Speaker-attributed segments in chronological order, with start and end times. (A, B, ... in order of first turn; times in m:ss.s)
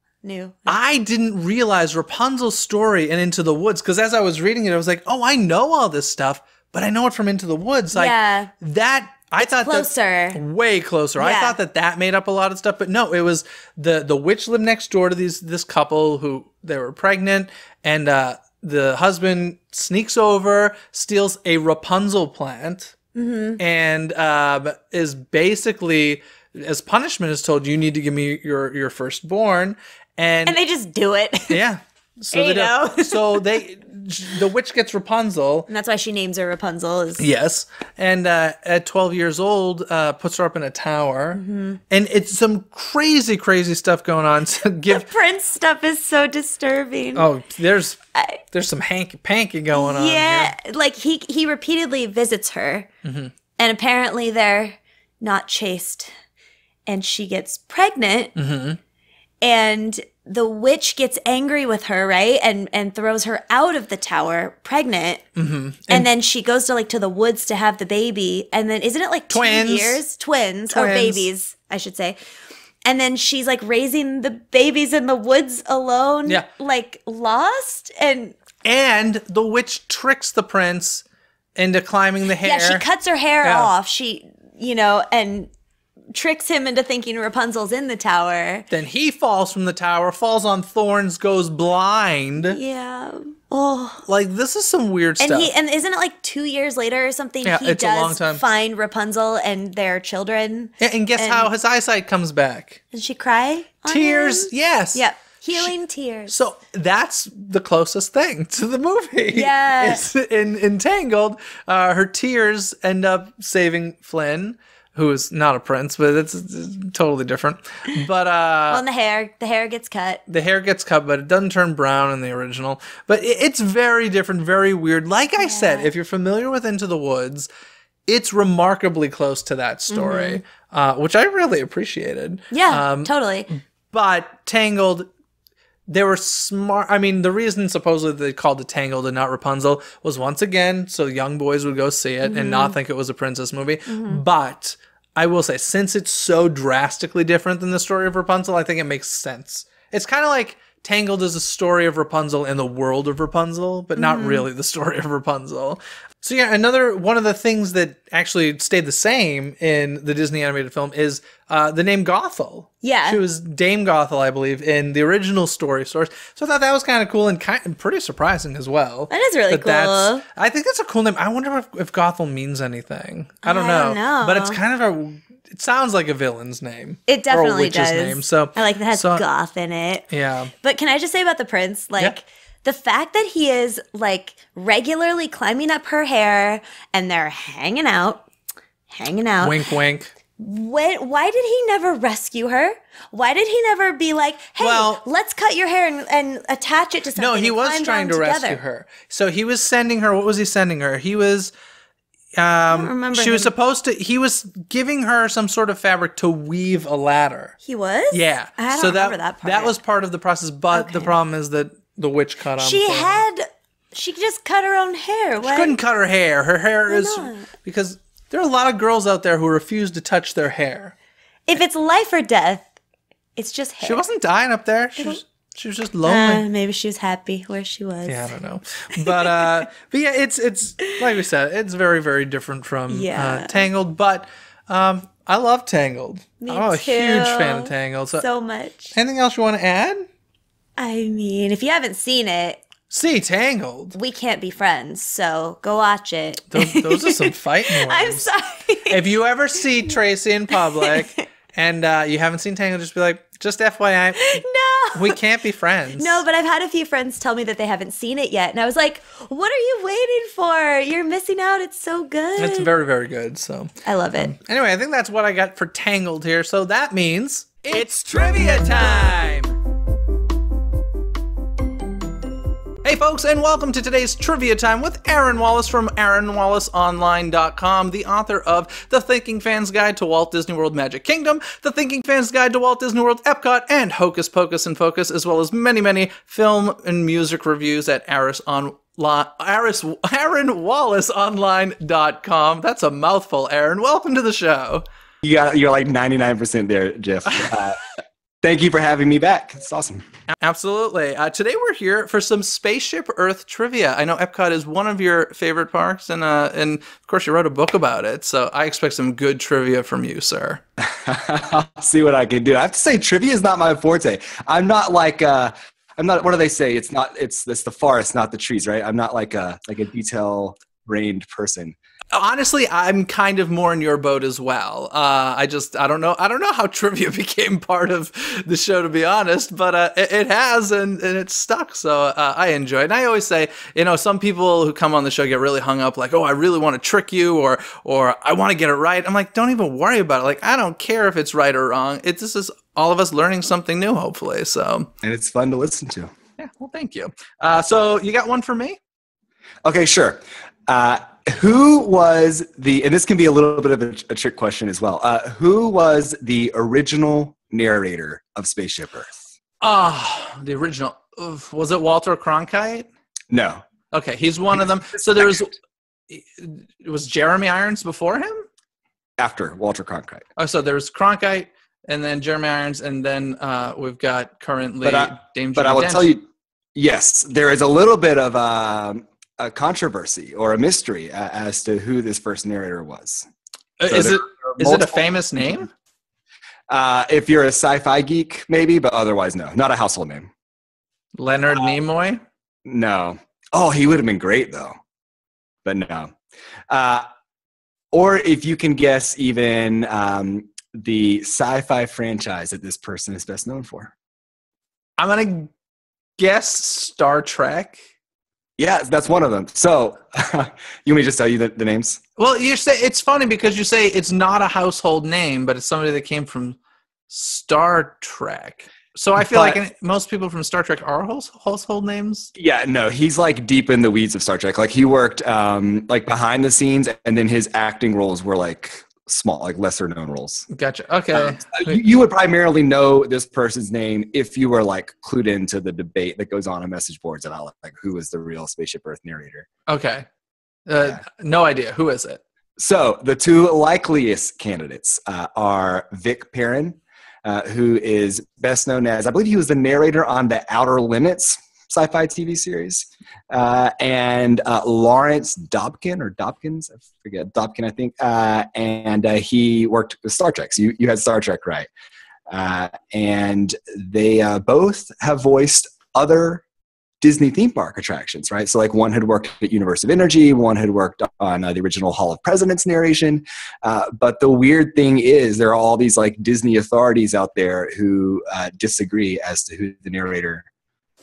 0:00.2-0:00.8 A
0:00.7-0:22.9 B
0:07.9-0:08.5 A
0:09.4-0:10.4 A
0:11.2-0:11.6 A
0:23.1-0:23.6 A
0:23.6-0:30.6 B
0:30.4-0:31.6 A
0:31.5-0:35.7 B
0:32.3-0:33.6 A
0:35.7-0:37.2 A
0:37.2-0:45.1 B
0:41.3-0:41.8 A
0:44.8-0:47.3 A
0:47.1-0:48.0 B
0:48.1-0:48.4 A
0:48.5-0:50.5 B
0:49.7-0:52.9 A
0:53.0-0:53.3 B
0:53.6-0:56.1 A
0:56.9-0:58.3 A
0:58.3-0:58.8 B
0:59.4-1:05.2 A
1:05.4-1:06.1 B
1:05.9-1:12.2 A
1:09.3-1:10.0 B
1:10.7-1:11.3 B
1:12.8-1:18.4 A
1:18.6-1:21.0 B
1:21.6-1:22.8 B
1:22.4-1:25.5 A
1:23.4-1:23.7 B
1:26.1-1:28.7 A
1:28.7-1:32.6 B
1:32.4-1:34.0 A
1:34.0-1:35.5 B
1:35.2-1:41.5 A
1:37.4-1:38.4 B
1:40.8-1:42.8 B
1:42.9-1:46.3 A
1:43.9-1:45.7 B
1:46.3-1:58.8 B
1:49.3-1:50.0 A
1:58.7-2:00.2 A
2:00.3-2:07.5 B
2:05.4-2:05.9 A
2:08.1-2:15.1 B
2:09.9-2:10.4 A
2:12.5-2:13.5 A
2:15.9-2:59.2 B
2:22.2-2:22.7 A
2:23.9-2:24.2 A
2:34.0-2:34.5 A
2:42.8-2:43.2 A
2:49.1-2:50.2 A
2:53.4-2:54.6 A
2:57.1-3:08.3 A
3:00.1-3:00.5 B
3:08.9-3:09.6 A
3:09.4-3:10.1 B
3:10.4-3:18.6 A
3:14.6-3:15.0 B
3:17.2-3:21.5 B
3:22.4-3:27.6 B
3:22.7-3:23.5 A
3:27.6-3:29.7 A
3:28.1-3:33.2 B
3:30.7-3:31.1 A
3:32.6-3:35.8 A
3:35.4-3:40.9 B
3:36.9-3:37.5 A
3:41.5-3:42.7 A
3:43.4-3:44.0 A
3:43.8-3:46.4 B
3:46.0-3:48.4 A
3:48.1-3:58.2 B
3:49.0-3:49.6 A
3:52.9-3:53.6 A
3:56.4-3:58.9 A
3:58.9-4:00.1 B
4:00.8-4:02.6 A
4:02.9-4:04.0 B
4:03.9-4:09.1 A
4:06.5-4:08.3 B
4:08.9-4:14.4 B
4:10.8-4:11.2 A
4:14.2-4:15.2 A
4:14.9-4:16.2 B
4:16.0-4:22.7 A
4:22.4-4:29.5 B
4:23.8-4:24.3 A
4:28.4-4:28.8 A
4:32.8-4:54.8 B
4:55.2-4:57.8 C
4:58.4-5:00.0 C
5:00.4-5:10.6 B
5:11.0-5:21.7 C
5:22.1-5:44.9 B
5:45.0-5:46.1 C
5:46.4-5:48.8 B
5:49.6-5:59.2 C
5:59.6-6:02.9 B
6:03.3-6:03.6 C
6:03.9-6:05.6 B
6:06.1-6:08.4 B
6:09.2-6:10.2 C
6:10.4-6:16.1 B
6:14.8-6:23.3 C
6:23.8-6:25.7 B
6:23.9-6:25.0 C
6:26.7-6:30.3 C
6:31.2-6:32.2 B
6:32.6-6:34.8 C
6:35.6-6:36.1 C
6:36.7-6:37.0 C
6:37.9-6:43.9 C
6:45.0-6:45.5 B
6:46.2-6:47.8 B
6:48.6-6:52.0 C
6:52.2-6:56.6 B
6:57.1-7:02.3 B
6:59.2-6:59.6 C
7:02.4-7:10.5 C
7:10.5-7:11.8 B
7:11.1-7:19.5 C
7:19.7-7:20.0 B
7:20.7-7:22.2 B
7:22.6-7:41.7 C
7:42.3-7:46.4 C
7:47.0-8:00.4 C